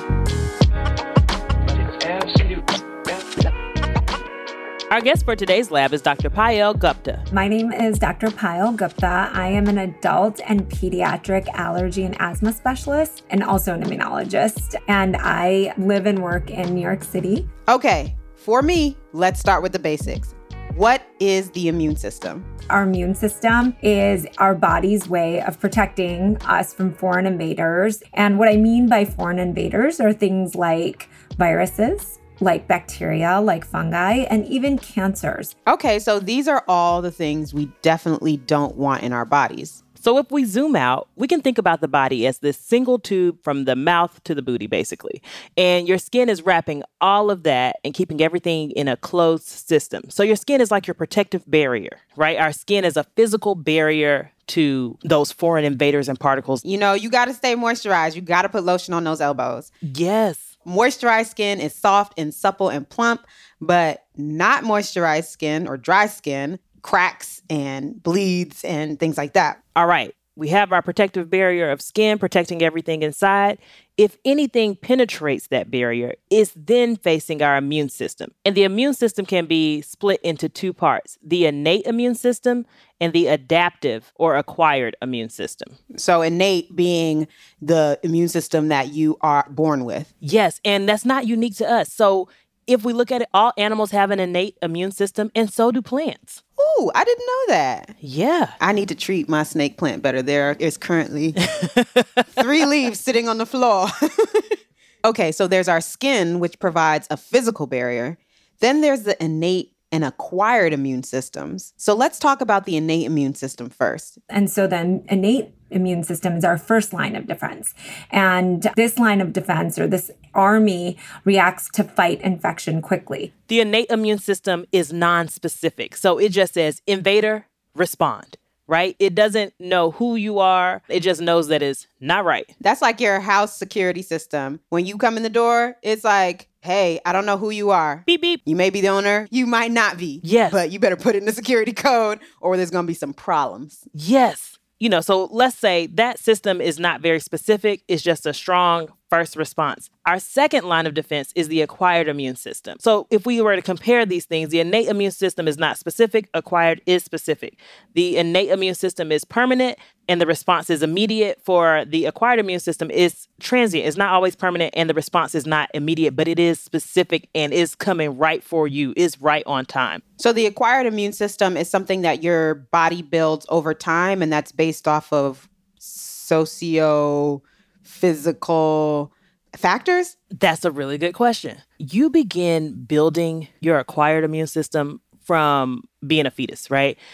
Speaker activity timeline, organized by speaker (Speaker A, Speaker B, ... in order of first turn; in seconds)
Speaker A: 4.9-7.2, 40.0-56.6, 59.9-60.5, 69.8-85.7, 90.2-96.4, 98.0-98.5, 101.4-102.3, 123.5-132.5, 138.1-138.4, 140.2-140.6, 143.9-170.0, 180.3-187.0
Speaker B: 7.3-17.4, 22.7-35.5, 114.3-123.3
Speaker C: 17.7-22.5, 35.6-39.8, 56.6-59.7, 60.6-69.6, 85.9-90.1, 96.6-97.9, 98.6-101.4, 102.3-104.5, 105.0-114.2, 132.6-143.8, 170.2-180.1